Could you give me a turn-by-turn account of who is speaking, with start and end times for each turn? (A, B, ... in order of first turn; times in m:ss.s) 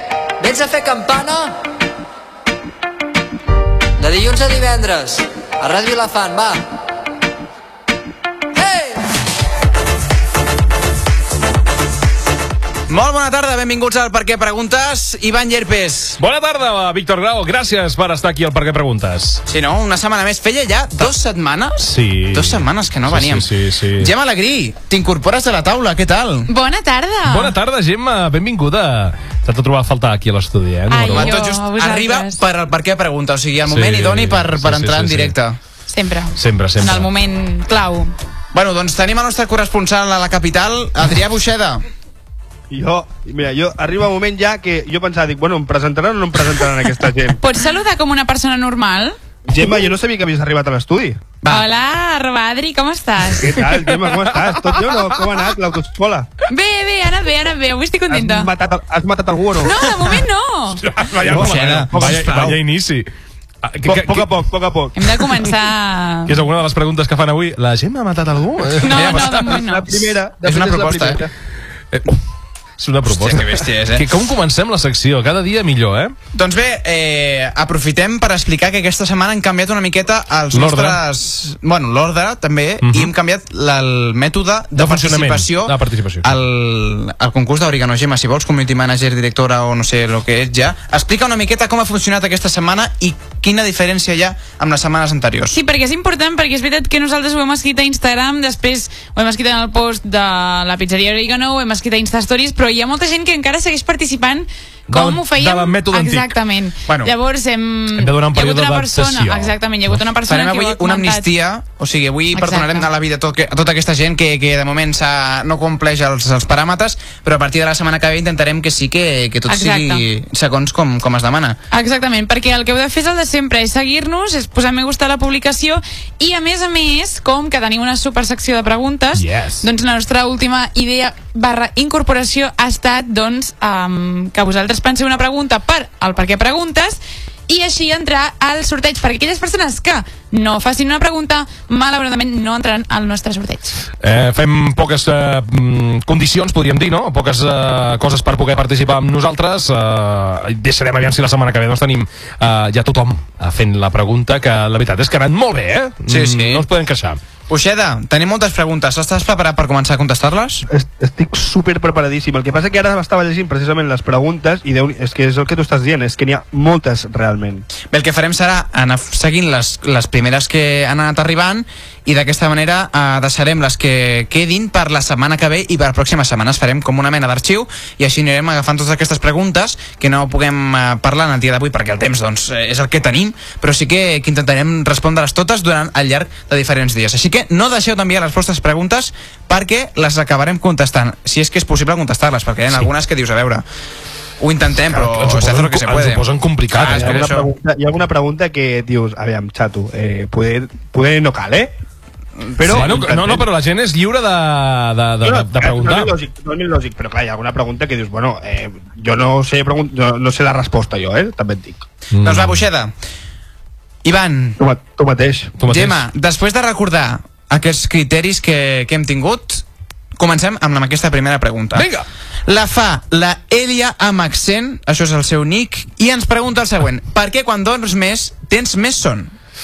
0:00.4-0:01.5 A
0:04.0-0:06.7 A
0:08.5-0:09.0 A
0:12.9-0:16.2 B
0:16.2-0:19.4 C
0:19.4-0:26.5 B
0:21.8-0:24.1 C
0:26.5-0:27.6 D
0:27.2-0:31.3 C
0:30.9-0:32.4 D
0:31.1-0:35.6 B
0:33.6-0:35.3 C
0:35.9-0:38.1 D
0:36.4-0:37.1 C
0:38.5-0:41.8 B
0:42.7-0:47.4 E
0:47.4-0:49.2 D
0:49.4-0:51.2 E
0:51.4-0:51.7 B
0:51.5-0:53.7 D
0:53.4-0:56.3 E
0:56.5-0:58.5 D
0:58.1-0:59.8 E
0:59.6-1:00.8 D
1:00.8-1:02.5 E
1:01.2-1:02.6 B
1:01.3-1:03.1 C
1:03.6-1:04.3 C
1:03.8-1:05.3 E
1:05.0-1:06.4 D
1:06.3-1:09.6 C
1:08.8-1:10.0 D
1:08.8-1:11.3 E
1:10.4-1:11.2 B
1:11.9-1:12.2 C
1:12.8-1:16.1 C
1:13.0-1:14.1 B
1:16.3-1:35.5 B
1:20.5-1:21.0 C
1:22.8-1:23.1 C
1:24.7-1:26.3 C
1:35.5-1:51.3 D
1:44.9-1:46.3 C
1:46.9-1:47.1 B
1:47.9-1:49.5 C
1:50.3-2:01.6 B
1:52.3-1:52.9 D
1:59.5-2:00.0 D
2:01.7-2:23.8 D
2:09.1-2:09.7 C
2:24.0-2:37.2 C
2:36.1-2:36.6 B
2:37.5-2:40.6 B
2:40.7-2:47.6 E
2:47.9-3:13.6 B
3:14.4-3:17.5 B
3:14.8-3:17.3 C
3:16.8-3:21.7 E
3:22.4-3:22.9 B
3:22.6-3:23.5 E
3:22.6-3:26.1 C
3:25.2-3:31.9 E
3:32.1-3:32.6 C
3:32.2-3:32.9 B
3:34.0-3:34.6 B
3:34.6-3:35.5 E
3:35.6-3:36.0 C
3:35.6-3:39.6 B
3:40.2-3:41.9 B
3:41.7-3:42.0 C
3:42.4-3:49.3 B